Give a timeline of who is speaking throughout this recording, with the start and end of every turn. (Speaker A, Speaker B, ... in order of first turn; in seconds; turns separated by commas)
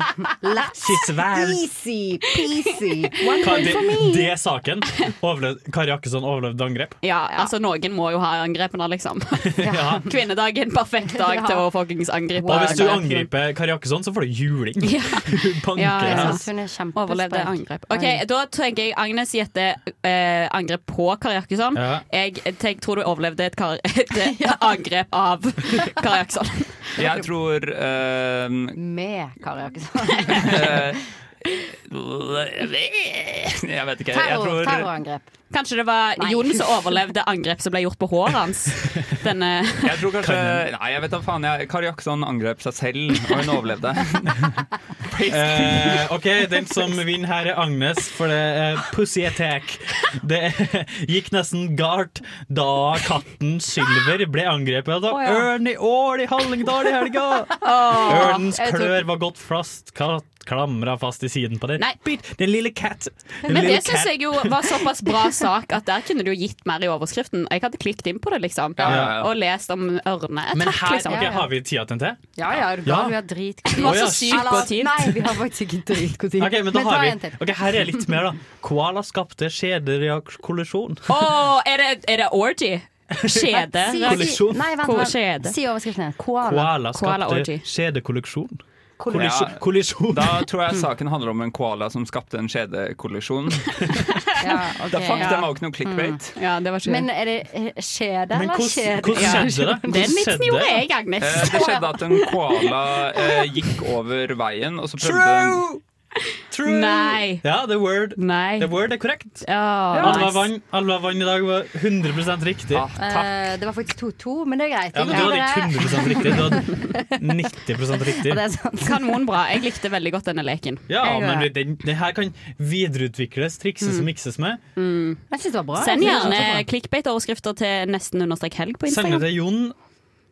Speaker A: 0.4-4.3, Speaker B: 0.8-1.6, Speaker B: 3.4-7.0, Speaker C: 7.0-13.3, Speaker B: 9.6-10.1, Speaker A: 9.6-10.1, Speaker A: 11.1-11.6, Speaker A: 12.3-12.9, Speaker B: 12.4-16.4, Speaker C: 14.8-27.1, Speaker A: 16.0-18.2, Speaker B: 21.7-22.0, Speaker A: 24.2-24.6, Speaker D: 26.9-28.8, Speaker A: 28.8-30.8, Speaker D: 30.4-34.9, Speaker A: 34.1-35.3, Speaker C: 35.5-40.1, Speaker A: 36.2-36.7, Speaker D: 39.8-46.0, Speaker B: 40.2-40.7, Speaker B: 45.3-64.8, Speaker A: 55.1-55.4, Speaker C: 57.6-58.5, Speaker A: 58.1-58.9, Speaker C: 63.5-71.4, Speaker D: 68.8-69.3, Speaker B: 68.8-69.2, Speaker B: 70.5-72.2, Speaker A: 71.1-71.4, Speaker A: 72.4-78.0, Speaker B: 72.8-73.2, Speaker C: 73.7-75.2, Speaker B: 73.8-74.7, Speaker B: 76.4-81.3, Speaker C: 81.1-85.5, Speaker B: 83.1-84.7, Speaker A: 83.6-86.7, Speaker B: 86.5-90.5, Speaker C: 86.9-87.6, Speaker A: 89.0-89.4, Speaker D: 89.1-93.9, Speaker A: 94.4-96.2, Speaker D: 94.9-96.3, Speaker C: 95.2-95.5, Speaker C: 96.4-97.1, Speaker A: 96.8-100.1, Speaker B: 98.3-100.8, Speaker C: 99.2-103.5, Speaker D: 101.2-105.6, Speaker B: 105.0-105.8, Speaker B: 106.5-112.8, Speaker C: 106.6-107.4, Speaker C: 108.2-108.8, Speaker C: 109.4-110.5, Speaker A: 109.9-110.2, Speaker D: 112.7-113.4, Speaker A: 113.0-117.5, Speaker B: 114.9-118.4, Speaker C: 115.1-115.4, Speaker A: 118.1-119.2, Speaker C: 118.8-120.8, Speaker B: 120.9-124.6, Speaker A: 121.0-121.5, Speaker C: 123.8-124.1, Speaker C: 124.8-125.2, Speaker A: 125.3-126.7, Speaker C: 125.8-129.3, Speaker B: 128.9-129.7